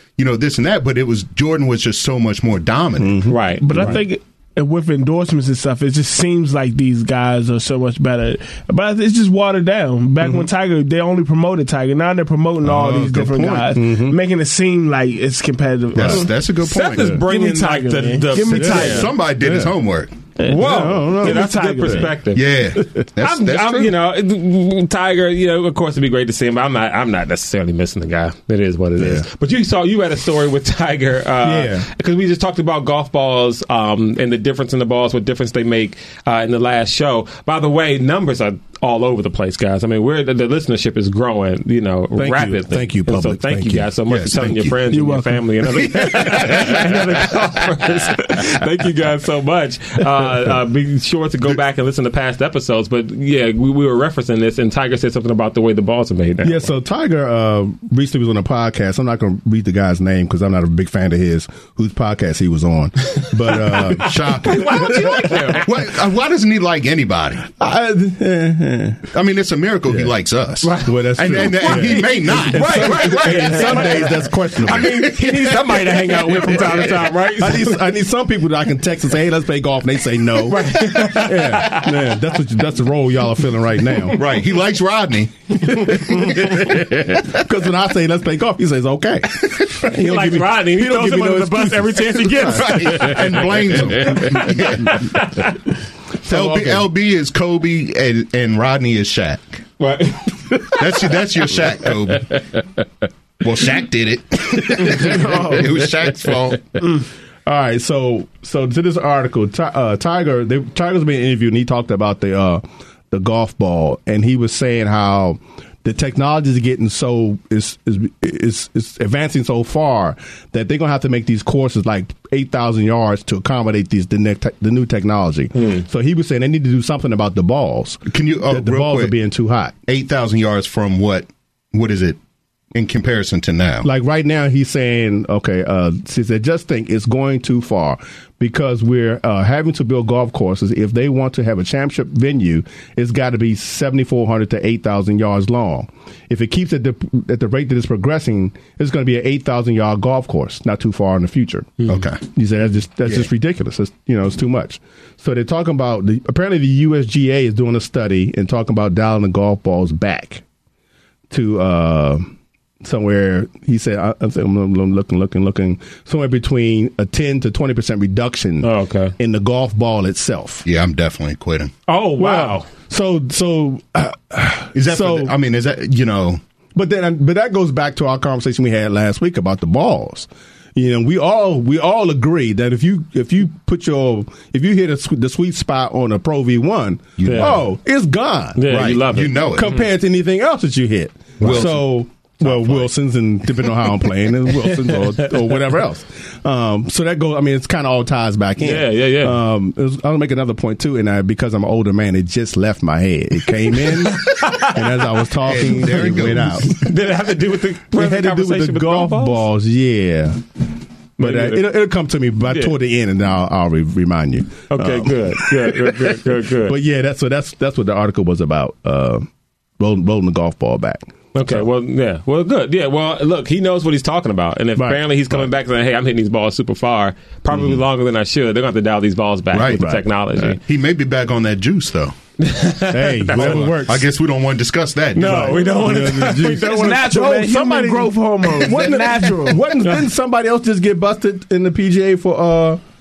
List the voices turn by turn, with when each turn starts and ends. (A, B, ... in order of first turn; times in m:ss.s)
0:00.2-0:03.2 A
0:03.0-0:04.0 B
0:03.3-0:04.0 C
0:03.6-0:16.3 D
0:10.2-0:10.5 B
0:12.6-0:14.2 B
0:15.9-0:17.2 A
0:16.0-0:16.3 B
0:16.6-0:19.1 C
0:17.0-0:17.2 B
0:17.2-0:19.1 D
0:18.4-0:20.1 A
0:18.6-0:19.7 B
0:20.4-0:22.2 D
0:20.4-0:22.6 C
0:20.5-0:22.1 B
0:22.3-0:23.9 A
0:22.8-0:23.0 B
0:23.2-0:56.7 C
0:29.0-0:29.3 B
0:31.4-0:31.9 B
0:42.2-0:43.9 B
0:44.1-0:44.8 A
0:44.9-0:45.4 D
0:45.8-0:47.1 A
0:56.4-1:05.7 B
1:03.9-1:07.5 A
1:04.4-1:05.7 C
1:07.5-1:09.1 B
1:09.1-1:14.1 A
1:10.6-1:17.8 C
1:10.8-1:15.1 B
1:14.7-1:16.8 A
1:16.3-1:24.2 B
1:20.5-1:22.1 C
1:24.1-1:26.7 A
1:25.6-1:35.2 B
1:29.9-1:35.5 C
1:32.4-1:35.2 A
1:36.2-1:36.9 B
1:36.2-1:39.6 A
1:39.8-1:40.8 C
1:40.7-1:42.6 A
1:43.4-1:46.8 A
1:44.8-1:45.7 B
1:44.8-1:45.7 D
1:47.5-2:09.7 B
2:08.1-2:09.2 A
2:09.9-2:12.2 A
2:12.7-2:13.9 A
2:13.8-2:40.4 B
2:31.9-2:32.2 A
2:41.3-2:42.3 B
2:42.8-2:50.6 B
2:48.6-2:49.1 C
2:50.6-2:51.7 A
2:51.9-2:52.7 C
2:52.2-2:55.3 B
2:54.8-2:56.4 A
2:56.8-3:08.8 B
3:07.2-3:07.6 A
3:07.2-3:07.6 C
3:08.6-3:09.8 C
3:08.7-3:09.7 A
3:09.5-3:26.9 B
3:11.4-3:11.7 C
3:11.4-3:11.9 A
3:12.5-3:12.8 A
3:14.6-3:15.3 C
3:18.6-3:19.4 C
3:24.0-3:24.8 C
3:25.4-3:26.7 A
3:26.6-3:29.4 C
3:27.9-3:30.4 B
3:31.2-3:31.7 C
3:31.2-3:39.3 B
3:32.5-3:32.7 C
3:34.7-3:36.8 C
3:39.8-3:41.6 B
3:41.3-3:50.6 C
3:44.8-3:45.5 B
3:49.5-3:49.8 A
3:49.8-3:50.0 B
3:50.4-3:52.1 A
3:52.4-3:53.8 C
3:52.9-3:54.1 B
3:53.4-3:55.6 A
3:55.2-3:57.3 C
3:55.2-4:02.8 B
3:56.6-3:59.6 D